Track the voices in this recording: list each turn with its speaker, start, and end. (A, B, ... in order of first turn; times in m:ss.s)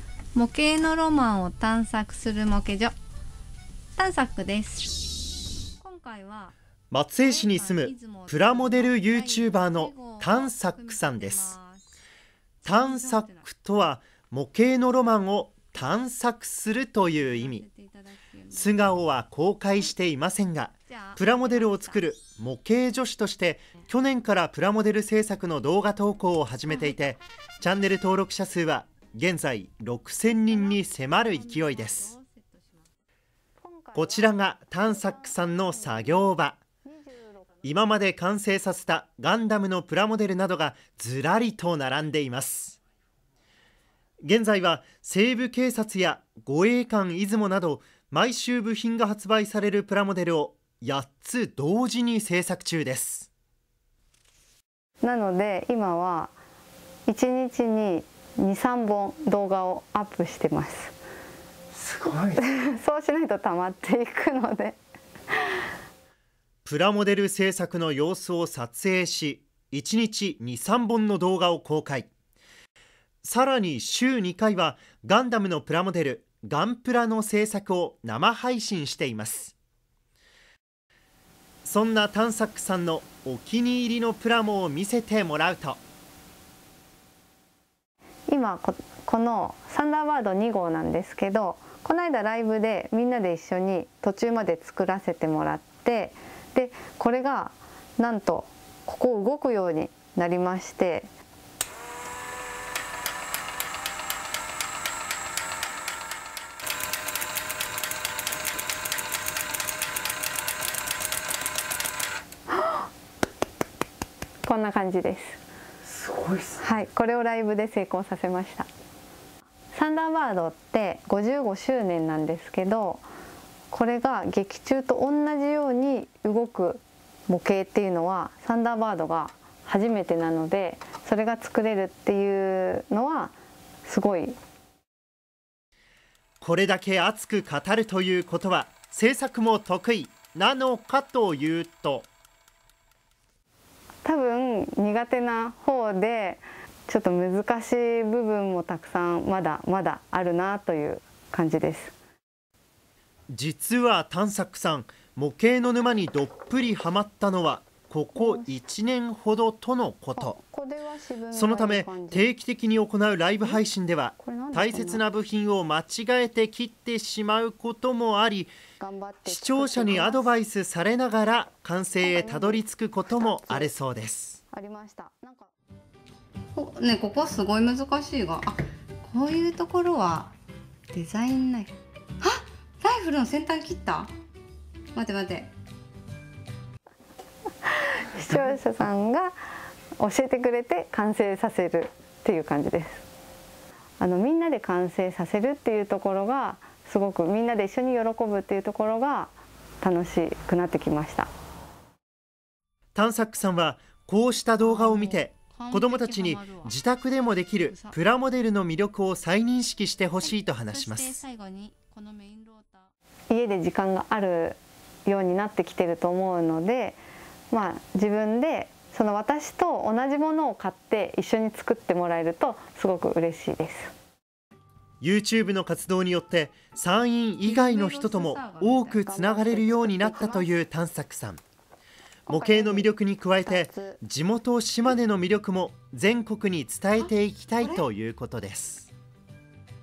0:00.3-0:02.9 A
0:04.0-0:05.0 A
0:05.8-0:06.5 A
0:06.9-0:11.5 B
0:07.2-0:11.9 A
0:12.6-0:13.5 A
0:12.6-0:17.6 B
0:17.2-0:18.8 A
0:18.5-0:32.1 B
0:20.9-0:22.1 A
0:26.7-0:27.1 A
0:30.3-0:32.9 A
0:33.6-0:37.6 C
0:33.9-0:36.6 B
0:37.6-0:42.8 B
0:44.2-0:53.3 B
0:55.0-0:56.3 C
0:57.1-1:01.0 C
1:01.8-1:02.3 B
1:02.3-1:04.8 C
1:06.6-1:12.1 B
1:13.2-1:19.5 B
1:21.6-1:25.8 B
1:28.3-1:41.1 C
1:52.5-1:52.9 C
1:54.4-1:55.4 C
1:56.5-1:58.7 C
1:59.7-2:03.0 C
2:03.7-2:14.4 C
2:16.4-2:22.1 B
2:24.0-2:32.0 C
2:33.3-2:40.4 B
2:38.1-2:38.6 C
2:40.1-2:42.3 C
2:41.3-2:48.5 B
2:44.2-2:45.0 C
2:48.8-2:50.3 C
2:49.2-2:54.4 B
2:52.0-2:53.7 C
2:54.5-2:55.5 C
2:56.5-3:00.3 A
3:00.9-3:04.1 A
3:04.9-3:05.5 A
3:07.6-3:09.4 C
3:10.0-3:13.0 C
3:14.0-3:21.3 C
3:22.9-3:31.2 B
3:24.6-3:26.7 A
3:27.6-3:28.0 A
3:30.2-3:32.9 A
3:33.3-3:37.0 C
3:37.5-3:43.9 C
3:45.0-3:51.4 B
3:47.4-3:49.0 A
3:49.0-3:50.5 C
3:52.3-3:54.0 C
3:52.3-3:58.9 B
3:57.0-3:57.8 A